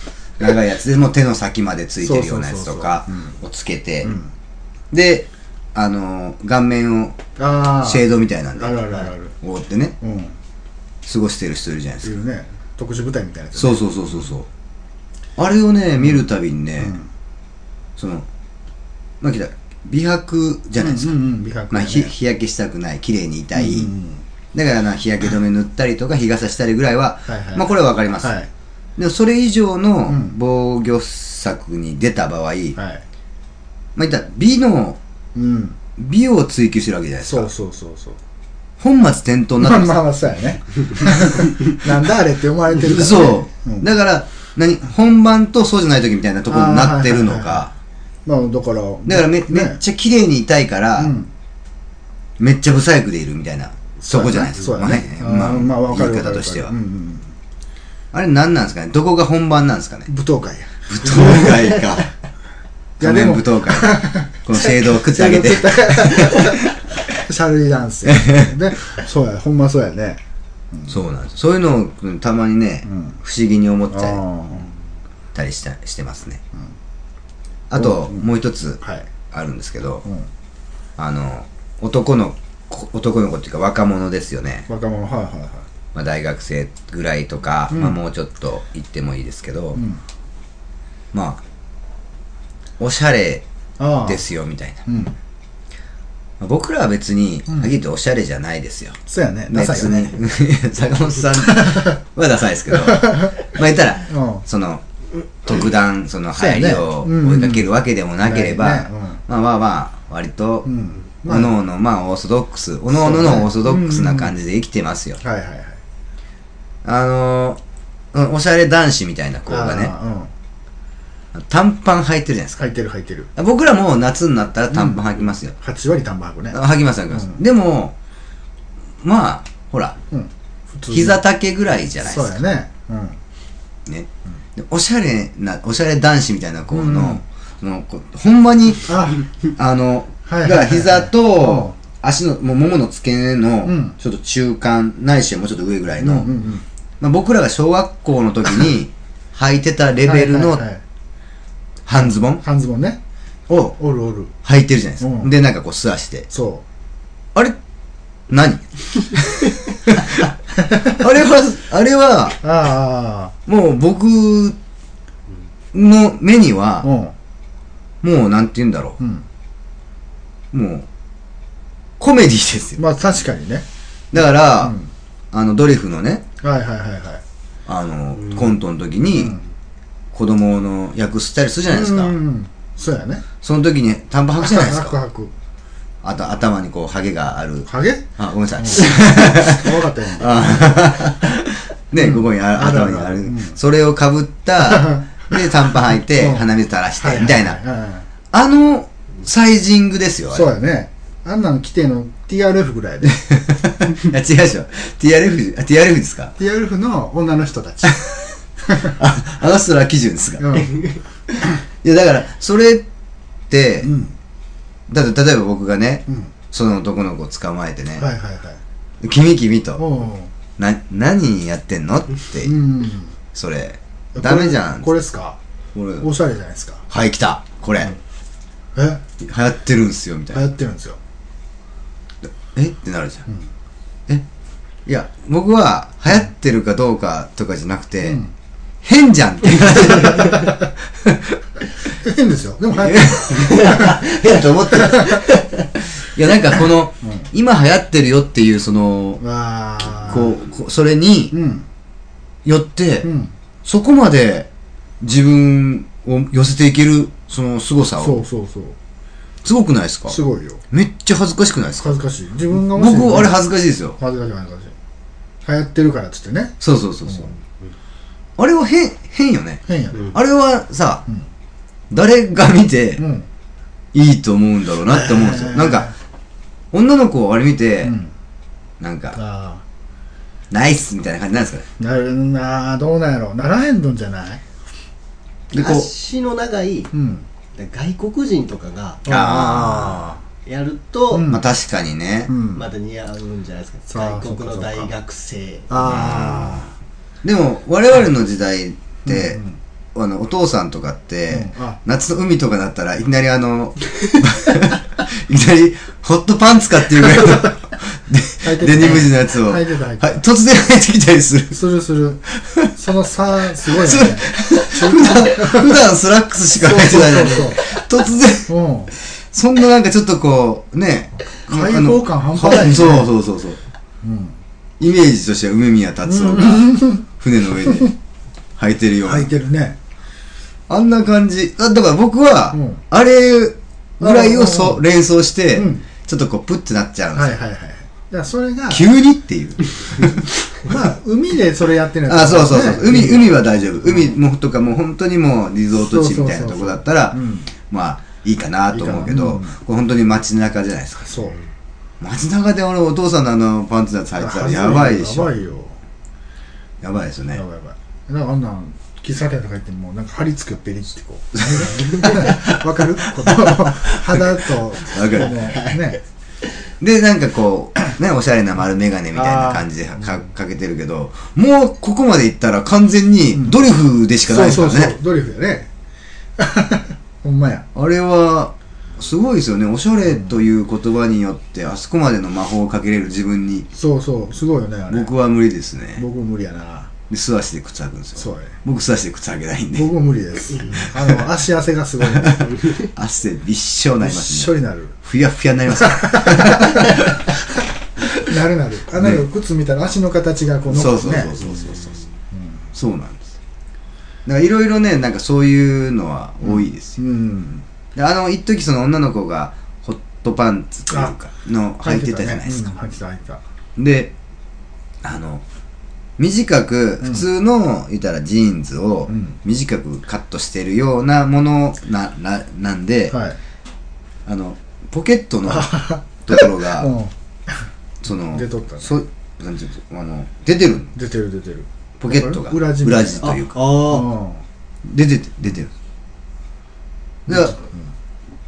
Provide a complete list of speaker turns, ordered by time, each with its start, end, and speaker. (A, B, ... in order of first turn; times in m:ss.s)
0:00.4-0:04.2 A
0:02.0-0:03.4 B
0:04.0-0:04.3 B
0:04.9-0:07.2 A
0:07.4-0:09.4 B
0:07.8-0:10.0 A
0:10.0-0:10.4 B
0:11.0-0:12.2 A
0:12.0-0:13.8 B
0:13.6-0:14.5 A
0:15.4-0:17.0 A
0:16.8-0:17.1 B
0:18.0-0:18.3 A
0:19.2-0:21.2 A
0:20.8-0:22.1 B
0:21.7-0:23.9 A
0:23.6-0:24.2 B
0:24.5-0:28.3 A
0:27.3-0:28.5 B
0:29.0-0:32.8 A
0:30.1-0:30.4 B
0:32.8-0:33.0 B
0:34.0-0:35.0 A
0:35.4-0:35.8 B
0:36.0-0:37.5 A
0:37.2-0:38.2 B
0:38.8-0:39.9 A
0:39.6-0:43.9 B
0:42.8-0:47.7 A
0:46.5-0:47.7 B
0:48.3-0:49.8 B
0:49.1-0:51.1 A
0:51.0-0:51.3 B
0:52.4-0:56.7 A
0:54.0-0:57.3 B
0:58.1-1:00.1 A
1:00.1-1:01.8 B
1:00.9-1:02.1 A
1:03.0-1:06.6 A
1:03.0-1:10.2 B
1:08.1-1:08.6 A
1:10.9-1:14.2 A
1:12.8-1:13.2 B
1:13.9-1:14.7 B
1:15.3-1:16.4 A
1:17.7-1:20.0 A
1:17.8-1:18.3 B
1:18.8-1:19.1 B
1:21.0-1:24.7 A
1:24.7-1:25.7 B
1:25.9-1:29.8 A
1:27.7-1:28.0 B
1:29.8-1:30.0 B
1:31.1-1:31.4 A
1:32.8-1:33.4 A
1:33.8-1:34.2 B
1:34.0-1:34.8 A
1:34.9-1:35.2 B
1:36.4-1:39.0 A
1:39.1-1:40.2 B
1:39.5-1:44.8 A
1:41.5-1:42.0 B
1:42.7-1:43.5 B
1:44.1-1:44.4 B
1:45.4-1:50.7 A
1:46.3-1:47.7 B
1:48.2-1:49.2 B
1:50.6-1:51.5 B
1:51.2-1:55.2 A
1:52.9-1:54.3 B
1:55.2-1:55.8 B
1:56.8-1:57.6 A
1:58.1-1:59.9 A
1:59.5-2:00.3 B
2:01.3-2:02.6 A
2:02.6-2:03.3 B
2:03.4-2:05.5 A
2:04.7-2:06.6 B
2:06.5-2:08.0 A
2:07.1-2:07.4 B
2:09.0-2:10.0 A
2:10.1-2:11.2 B
2:10.9-2:12.5 A
2:12.0-2:13.2 B
2:13.9-2:26.4 A
2:16.7-2:17.2 B
2:18.9-2:19.2 B
2:20.3-2:21.8 B
2:23.6-2:24.0 B
2:26.0-2:26.6 B
2:27.0-2:30.6 A
2:30.0-2:30.8 B
2:31.9-2:32.4 A
2:32.0-2:33.0 B
2:33.5-2:33.8 A
2:33.8-2:34.4 B
2:34.4-2:36.3 A
2:35.0-2:35.3 B
2:36.3-2:36.6 B
2:38.3-2:42.4 A
2:42.4-2:43.4 B
2:43.5-2:44.6 A
2:45.7-2:46.9 A
2:46.8-2:47.1 B
2:48.0-2:49.0 A
2:49.0-2:49.2 B
2:50.5-2:50.9 A
2:52.0-2:52.8 A
2:52.8-2:53.6 B
2:54.1-2:54.8 A
2:54.6-2:54.9 B
2:55.3-2:56.2 A
2:56.4-2:57.2 B
2:57.7-2:59.4 A
2:59.2-2:59.4 B
3:00.1-3:02.2 A
3:01.7-3:03.2 B
3:03.4-3:05.0 A
3:04.4-3:05.3 B
3:06.0-3:17.6 A
3:07.7-3:08.1 B
3:08.6-3:11.0 B
3:12.0-3:13.6 B
3:14.7-3:15.1 B
3:16.2-3:16.5 B
3:17.0-3:18.0 B
3:18.3-3:20.5 A
3:20.3-3:23.2 B
3:23.0-3:26.3 A
3:26.4-3:28.0 B
3:28.7-3:29.0 B
3:28.8-3:30.6 A
3:30.4-3:30.8 B
3:31.8-3:32.9 A
3:33.5-3:33.9 A
3:33.8-3:34.1 B
3:34.9-3:38.1 A
3:38.0-3:38.6 B
3:39.0-3:39.8 A
3:39.8-3:40.3 B
3:40.6-3:42.6 A
3:42.4-3:43.1 B
3:43.3-3:44.9 A
3:44.2-3:45.4 B
3:45.8-3:46.1 A
3:46.0-3:46.8 B
3:46.9-3:48.0 A
3:48.8-3:49.0 B
3:49.2-3:50.5 A
3:50.3-3:51.0 B
3:52.3-3:53.3 A
3:54.9-3:58.2 A
3:58.0-3:58.3 B
3:58.8-4:01.4 A
4:00.0-4:00.5 B
4:02.0-4:03.9 B
4:02.8-4:05.3 A
4:03.4-4:04.4 C
4:04.9-4:05.2 B
4:06.0-4:09.2 A
4:09.2-4:10.4 B
4:10.0-4:11.3 A
4:11.3-4:11.7 B
4:12.4-4:13.1 A
4:13.0-4:13.3 B
4:13.6-4:14.5 A
4:15.0-4:18.2 A
4:18.0-4:18.8 B
4:19.4-4:20.2 A
4:20.1-4:20.6 B
4:20.7-4:22.0 A
4:21.8-4:23.4 B
4:22.5-4:24.0 A
4:24.0-4:24.7 B
4:25.4-4:27.3 B
4:26.6-4:27.3 A
4:28.4-4:31.0 A
4:29.7-4:30.2 B
4:31.9-4:33.0 A
4:33.0-4:33.3 B
4:33.9-4:35.9 A
4:34.9-4:35.9 B
4:36.7-4:38.0 A
4:37.8-4:38.1 B
4:38.8-4:39.2 A
4:39.1-4:39.6 B
4:40.5-4:41.7 A
4:41.8-4:44.4 B
4:45.5-4:45.9 A
4:45.5-4:46.9 C
4:46.9-4:47.2 B
4:47.6-4:49.0 C
4:49.1-4:50.1 A
4:49.1-4:50.2 B
4:50.4-4:51.3 C
4:51.1-4:51.5 B
4:51.3-4:52.3 A
4:52.3-4:52.6 B
4:52.5-4:55.8 C
4:53.9-4:54.9 B
4:55.7-4:56.7 B
4:55.8-4:56.7 A
4:57.2-4:59.4 A
4:59.1-4:59.6 B
5:00.0-5:11.6 A
5:01.3-5:01.8 B
5:08.4-5:10.2 B
5:11.5-5:15.8 B
5:12.4-5:12.7 A
5:13.6-5:23.6 A
5:16.6-5:17.7 B
5:18.5-5:18.9 B
5:21.5-5:23.1 B
5:24.0-5:24.4 B
5:24.8-5:27.9 A
5:26.1-5:27.1 B
5:28.6-5:29.3 A
5:29.0-5:29.8 B
5:30.7-5:37.4 A
5:32.5-5:32.8 B
5:34.0-5:34.8 B
5:35.6-5:35.9 B
5:37.1-5:38.9 B
5:38.7-5:40.2 A
5:40.6-5:44.2 B
5:42.1-5:51.3 A
5:45.8-5:47.5 B
5:48.7-5:49.6 B
5:51.1-5:51.4 B
5:52.0-5:55.4 A
5:54.2-5:55.8 B
5:56.8-5:57.4 A
5:57.3-6:06.0 B
6:01.5-6:05.4 A
6:05.3-6:05.8 C
6:06.8-6:14.9 A
6:09.1-6:09.7 B
6:14.3-6:15.7 B
6:16.4-6:17.7 B
6:17.8-6:23.7 A
6:23.7-6:25.1 B
6:24.9-6:26.0 A
6:26.0-6:26.9 B
6:27.1-6:29.9 A
6:28.2-6:28.6 B
6:29.7-6:32.5 B
6:30.7-6:31.2 A
6:32.0-6:37.2 A
6:32.4-6:32.9 C
6:34.0-6:35.0 B
6:35.8-6:37.1 B
6:38.2-6:41.4 B
6:39.0-6:39.2 A
6:40.7-6:42.0 A
6:42.8-6:43.4 A
6:44.3-6:47.0 A
6:46.5-6:47.6 B
6:48.0-6:52.8 A
6:51.8-6:53.4 B
6:53.8-6:54.1 A
6:55.0-6:55.4 A
6:56.2-7:03.2 A
6:59.1-6:59.4 B
7:03.1-7:03.4 B
7:04.3-7:06.9 A
7:05.5-7:07.1 B
7:08.0-7:10.9 A
7:08.3-7:08.9 B
7:11.0-7:14.4 B
7:12.0-7:13.7 A
7:13.2-7:14.1 C
7:14.8-7:15.7 A
7:17.3-7:17.6 A
7:17.3-7:17.9 B